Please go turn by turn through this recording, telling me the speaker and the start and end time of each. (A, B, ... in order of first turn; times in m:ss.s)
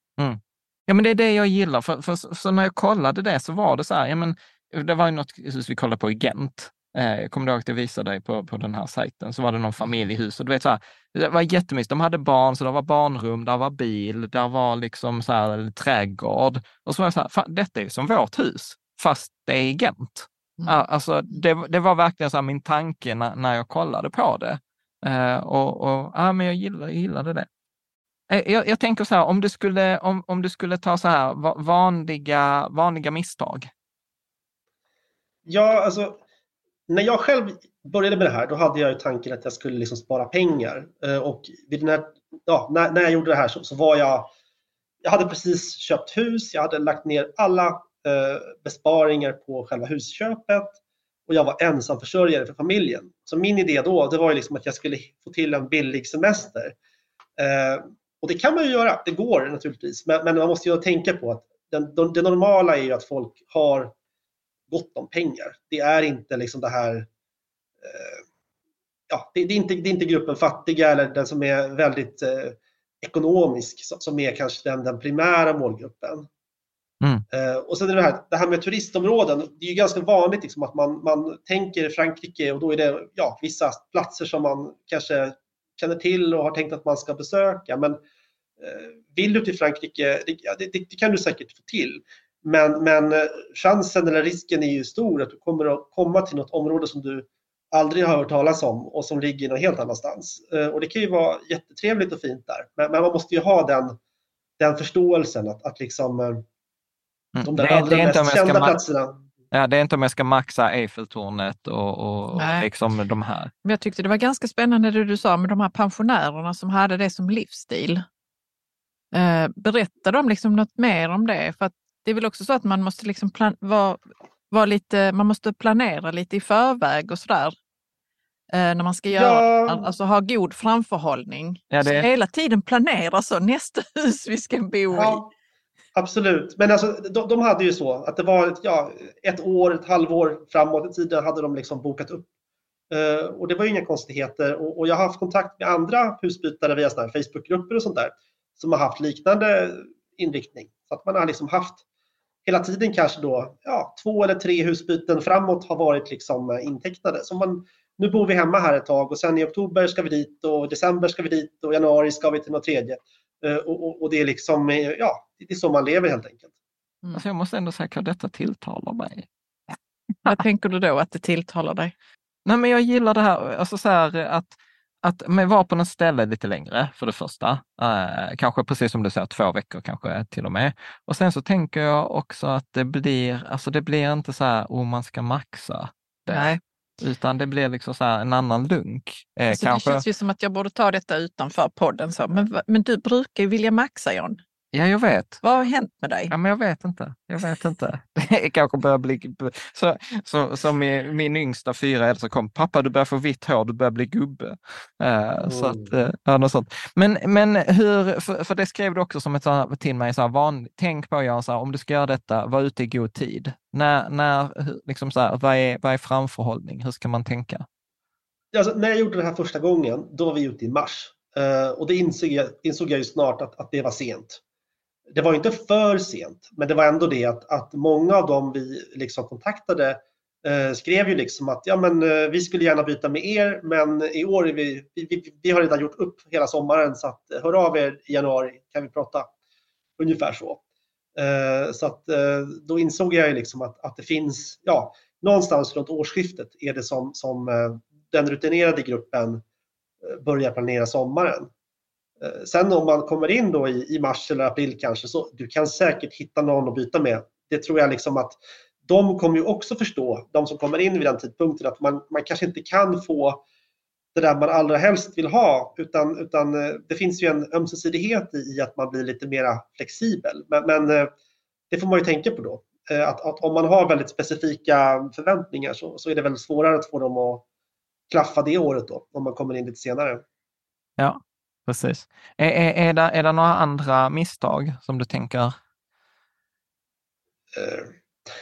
0:00.2-0:27.5 A
0:28.3-0:33.7 A
0:35.4-0:36.2 B
0:36.9-0:44.3 B
0:45.0-0:50.8 B
0:51.3-0:56.7 B
0:57.4-1:03.9 B
1:04.7-1:07.1 B
1:07.8-1:08.2 B
1:09.1-1:16.3 B
1:17.3-1:28.0 B
1:28.6-1:44.0 B
1:44.6-1:46.4 B
1:47.3-1:48.8 A
1:47.4-1:49.2 B
1:49.5-1:53.5 A
1:52.3-1:52.7 C
1:53.6-1:58.0 C
1:59.1-2:07.5 C
2:08.5-2:15.2 C
2:09.1-2:09.9 B
2:11.7-2:12.1 A
2:14.9-2:15.3 B
2:15.9-2:22.2 B
2:22.9-2:31.8 B
2:32.4-2:46.5 B
2:47.1-2:49.3 A
2:50.2-2:51.9 C
2:52.4-3:10.0 A
3:06.3-3:06.6 C
3:09.5-3:14.4 C
3:14.7-3:15.4 A
3:15.4-3:16.3 C
3:16.3-3:37.6 A
3:25.4-3:25.9 B
3:38.5-3:44.4 B
3:45.1-3:59.3 B
4:00.0-4:00.6 B
4:01.2-4:09.4 B
4:10.0-4:11.5 B
4:12.2-4:23.4 B
4:24.1-4:31.1 B
4:31.7-4:37.4 B
4:38.1-4:40.2 B
4:41.0-4:45.6 A
4:47.5-4:47.9 B